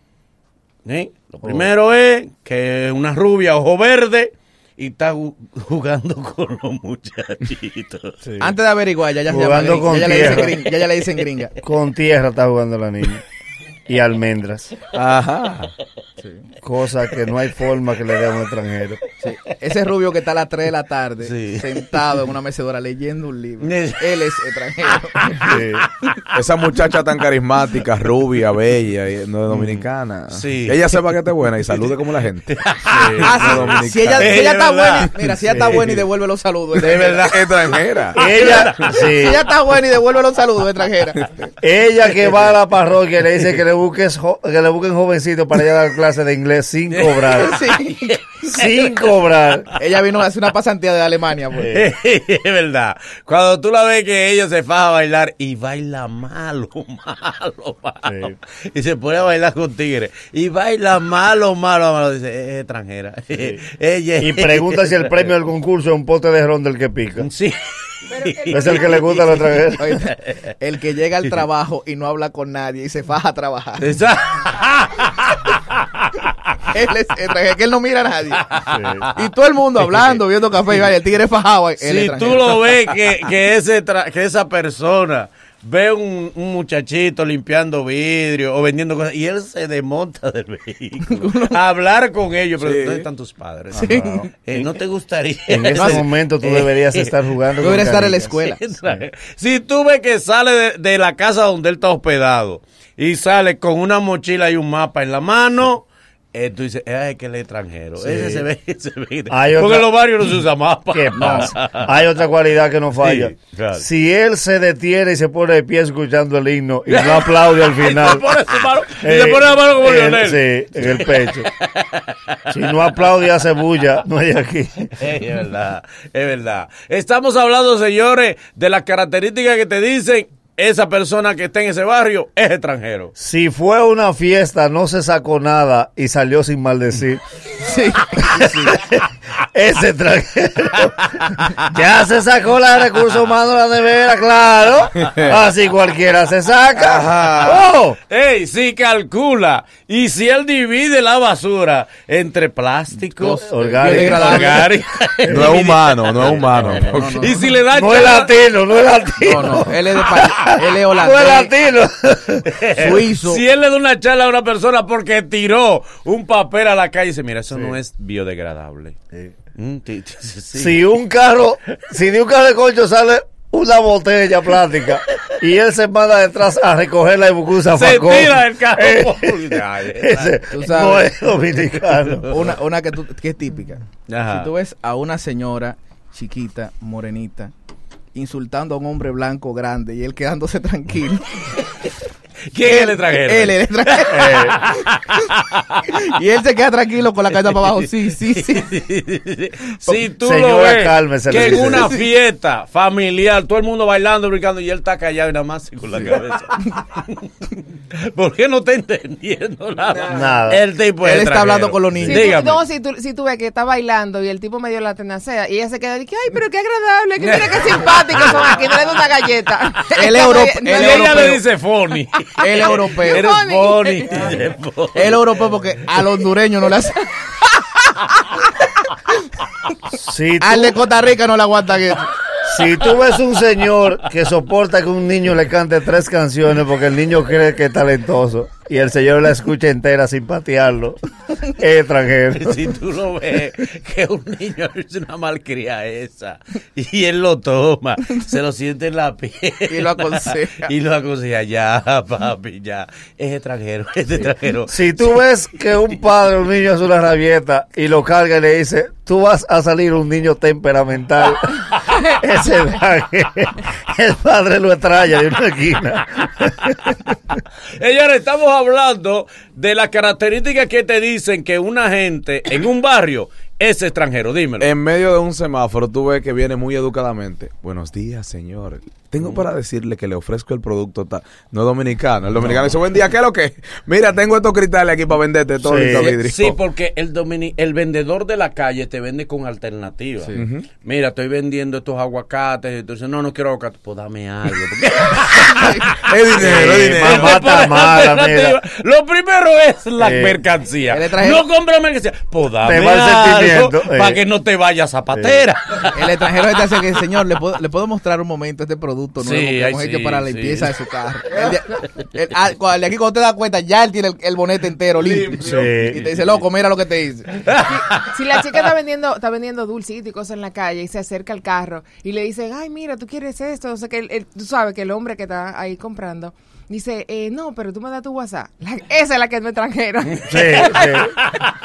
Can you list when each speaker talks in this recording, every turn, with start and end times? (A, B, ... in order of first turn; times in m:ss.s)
0:00.8-0:08.2 A
0:08.2-0:08.5 B
0:08.4-0:11.6 C
0:09.3-0:10.6 B
0:10.0-0:10.4 A
0:11.6-0:13.2 B
0:13.9-0:14.7 B
0:14.9-0:15.7 D
0:16.6-0:19.0 B
0:19.2-0:25.6 C
0:21.2-0:22.0 A
0:23.6-0:24.4 A
0:24.9-0:26.2 A
0:25.4-0:25.8 B
0:26.3-0:32.5 D
0:29.5-0:31.1 A
0:31.7-0:35.9 A
0:32.9-0:33.8 B
0:33.2-0:34.3 D
0:33.2-0:37.3 C
0:35.5-0:35.9 B
0:36.7-0:39.4 A
0:37.2-0:38.2 D
0:38.1-0:39.4 B
0:38.2-0:41.5 C
0:41.6-0:47.6 B
0:46.9-0:49.2 A
0:47.3-0:48.1 C
0:48.4-0:49.7 B
0:49.8-0:51.7 C
0:51.6-0:51.9 B
0:51.7-1:05.3 A
0:58.0-0:58.3 B
1:03.3-1:03.6 B
1:04.2-1:07.3 B
1:07.2-1:10.5 A
1:08.5-1:09.8 B
1:09.8-1:13.9 C
1:13.8-1:16.3 A
1:16.7-1:18.5 C
1:18.4-1:19.1 A
1:18.7-1:19.1 B
1:19.1-1:22.7 C
1:21.8-1:37.1 A
1:31.0-1:31.5 C
1:32.6-1:33.0 D
1:33.8-1:34.3 C
1:34.0-1:34.2 B
1:35.5-1:38.3 B
1:35.7-1:36.0 C
1:37.6-1:38.6 C
1:38.2-1:52.0 A
1:48.0-1:48.5 B
1:49.3-1:49.9 B
1:50.9-1:58.2 B
1:51.2-1:51.5 C
1:53.0-1:53.8 A
1:56.9-2:02.5 A
1:59.0-2:01.5 B
2:02.5-2:04.9 B
2:05.0-2:13.1 A
2:13.2-2:17.2 B
2:17.6-2:18.8 C
2:18.3-2:19.0 B
2:19.5-2:28.0 B
2:26.8-2:38.5 A
2:26.8-2:27.6 D
2:33.2-2:35.6 B
2:33.2-2:34.7 C
2:35.3-2:37.3 D
2:36.2-2:36.8 B
2:36.8-2:37.5 C
2:37.7-2:42.5 B
2:39.2-2:41.5 C
2:42.5-2:49.0 A
2:42.8-2:43.4 C
2:49.5-2:50.9 A
2:50.5-3:02.4 B
2:57.7-3:00.5 A
3:00.5-3:01.1 C
3:01.8-3:02.5 A
3:02.3-3:07.5 C
3:04.1-3:04.5 A
3:08.1-3:11.4 C
3:12.5-3:15.9 A
3:12.6-3:14.5 C
3:14.1-3:14.6 B
3:15.9-3:18.7 C
3:17.3-3:32.6 A
3:20.2-3:21.9 B
3:21.4-3:21.9 C
3:30.1-3:30.6 B
3:31.0-3:32.2 C
3:31.9-3:32.2 B
3:32.1-3:41.3 E
3:37.2-3:38.7 A
3:39.9-3:41.4 C
3:40.7-3:45.3 A
3:42.3-3:44.4 E
3:42.4-3:43.3 C
3:45.0-3:47.0 C
3:50.0-3:50.8 B
3:50.4-3:52.1 C
3:52.4-4:02.7 B
4:02.3-4:15.2 A
4:09.7-4:10.7 C
4:14.7-4:27.0 B
4:27.8-4:34.7 A
4:34.6-4:46.6 D
4:39.2-4:39.4 A
4:45.6-4:46.2 B
4:45.9-5:06.8 A
4:50.3-4:50.7 D
4:55.6-4:55.8 C
4:56.0-4:57.4 D
4:56.4-4:58.6 B
5:00.0-5:00.4 B
5:00.9-5:01.4 C
5:02.6-5:04.2 B
5:05.1-5:05.4 B
5:05.9-5:17.4 C
5:09.2-5:10.7 A
5:15.4-5:16.1 B
5:17.4-5:18.1 A
5:17.6-5:31.1 E
5:30.2-5:30.8 A
5:30.3-5:31.2 B